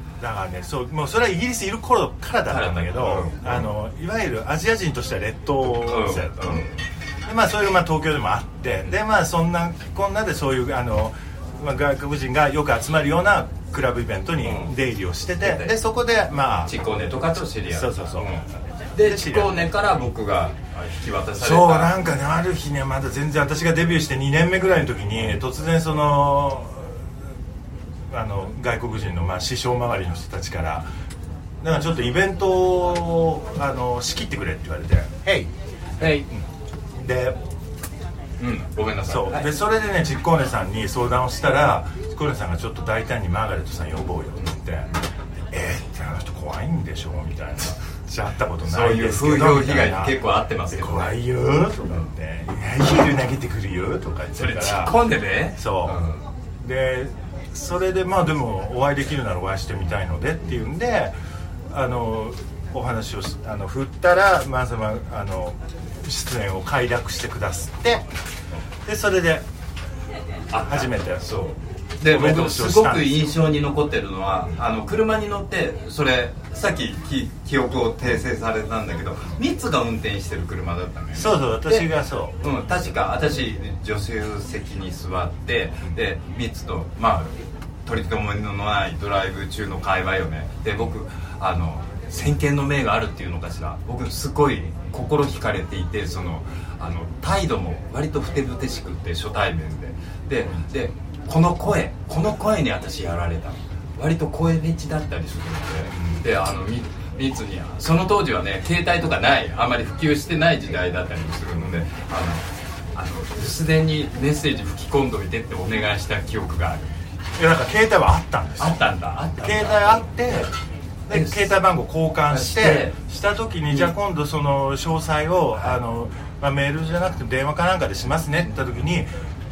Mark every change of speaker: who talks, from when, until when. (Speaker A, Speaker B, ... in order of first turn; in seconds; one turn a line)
Speaker A: 0.2-6.7
Speaker B: 2.5-3.6
Speaker B: 5.8-6.7
Speaker A: 7.2-16.8
Speaker B: 14.4-14.7
Speaker B: 15.4-15.7
Speaker B: 16.6-21.9
Speaker A: 17.7-18.3
Speaker A: 19.0-19.6
Speaker A: 21.4-27.0
Speaker A: 28.1-30.8
Speaker A: 31.6-36.4
Speaker B: 36.0-36.3
Speaker A: 37.0-37.4
Speaker B: 38.4-39.5
Speaker A: 39.1-44.9
Speaker A: 45.5-50.2
Speaker B: 48.6-51.1
Speaker A: 50.7-54.9
Speaker B: 54.3-56.2
Speaker A: 55.6-56.0
Speaker A: 56.6-61.1
Speaker A: 61.7-68.1
Speaker A: 68.8-69.5
Speaker B: 70.5-81.9
Speaker A: 70.7-71.3
Speaker A: 72.0-73.3
Speaker A: 81.2-82.4
Speaker B: 82.4-117.0
Speaker A: 105.9-106.2
Speaker A: 111.6-111.8
Speaker A: 117.4-118.8
Speaker B: 118.6-120.5
Speaker A: 119.4-120.5
Speaker A: 121.0-129.1
Speaker B: 121.1-121.5
Speaker B: 122.3-123.0